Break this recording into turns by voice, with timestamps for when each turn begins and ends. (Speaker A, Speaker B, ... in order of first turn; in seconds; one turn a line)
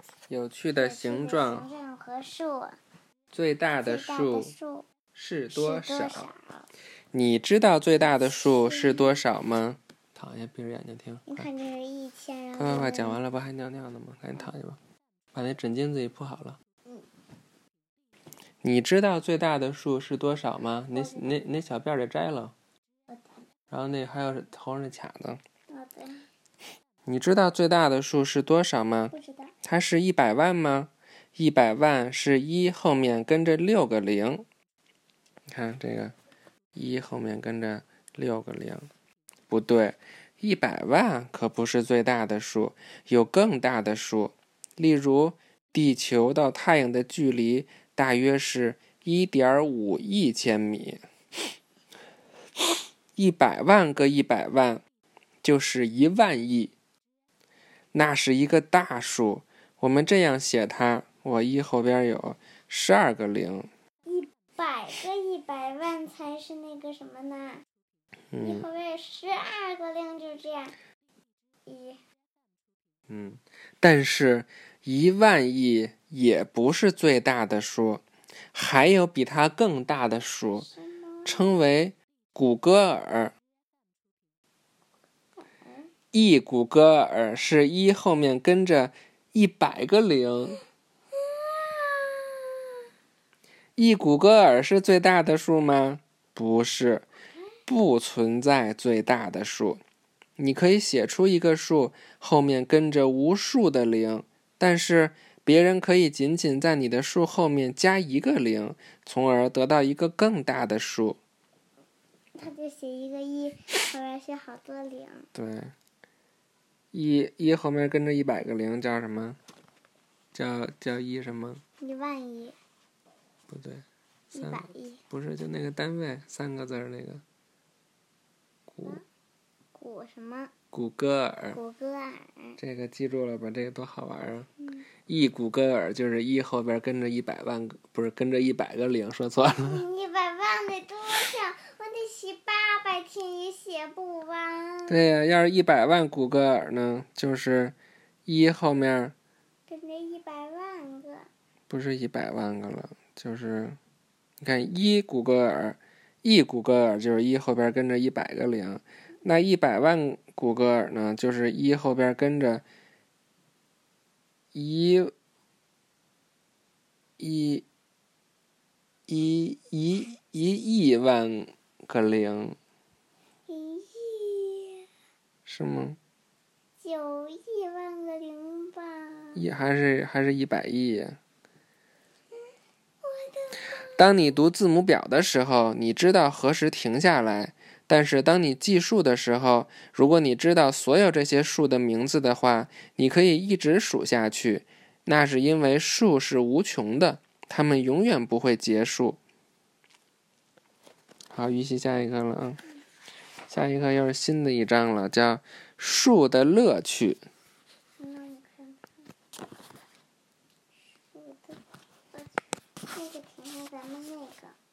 Speaker A: 0.3-1.7
Speaker B: 0.8-2.8
Speaker A: 3.3-4.5
Speaker B: 3.8-4.9
Speaker A: 5.2-6.3
Speaker B: 5.5-6.7
Speaker A: 7.1-11.5
Speaker B: 8.1-9.2
Speaker B: 11.3-13.2
Speaker A: 12.6-14.8
Speaker A: 15.3-16.6
Speaker A: 18.6-22.5
Speaker B: 20.8-21.5
Speaker B: 23.1-23.4
Speaker A: 23.7-25.4
Speaker B: 25.7-26.2
Speaker A: 27.1-34.4
Speaker B: 29.1-29.5
Speaker A: 35.5-36.1
Speaker A: 36.8-38.9
Speaker A: 39.5-51.0
Speaker A: 53.2-54.8
Speaker A: 55.4-56.7
Speaker A: 57.9-63.7
Speaker B: 64.1-67.6
Speaker A: 68.3-68.7
Speaker B: 68.4-70.8
Speaker B: 71.7-72.0
Speaker A: 73.1-80.7
Speaker B: 80.6-81.5
Speaker A: 81.3-83.3
Speaker B: 85.4-85.9
Speaker A: 86.1-90.6
Speaker B: 91.1-92.8
Speaker A: 93.8-97.1
Speaker A: 97.7-99.8
Speaker A: 100.4-111.2
Speaker B: 112.4-115.3
Speaker A: 115.3-115.7
Speaker A: 116.9-119.4
Speaker A: 120.3-121.6
Speaker B: 121.8-122.6
Speaker A: 123.5-123.8
Speaker B: 124.3-125.0
Speaker A: 124.4-127.2
Speaker A: 128.7-129.0
Speaker B: 129.7-130.5
Speaker A: 130.7-131.6
Speaker B: 131.5-132.6
Speaker A: 132.6-134.5
Speaker A: 135.1-139.8
Speaker B: 139.6-145.0
Speaker A: 144.9-147.8
Speaker A: 148.3-149.2
Speaker B: 149.7-151.3
Speaker A: 151.7-153.8
Speaker A: 154.4-162.6
Speaker A: 164.5-165.1
Speaker A: 167.2-167.7
Speaker A: 169.1-172.6
Speaker B: 173.5-174.9
Speaker A: 175.5-176.0
Speaker B: 176.8-179.4
Speaker A: 179.3-181.2
Speaker B: 183.0-184.4
Speaker A: 183.7-199.2
Speaker A: 201.3-202.6
Speaker A: 203.5-207.2
Speaker B: 208.0-209.1
Speaker B: 210.8-211.6
Speaker B: 212.1-214.5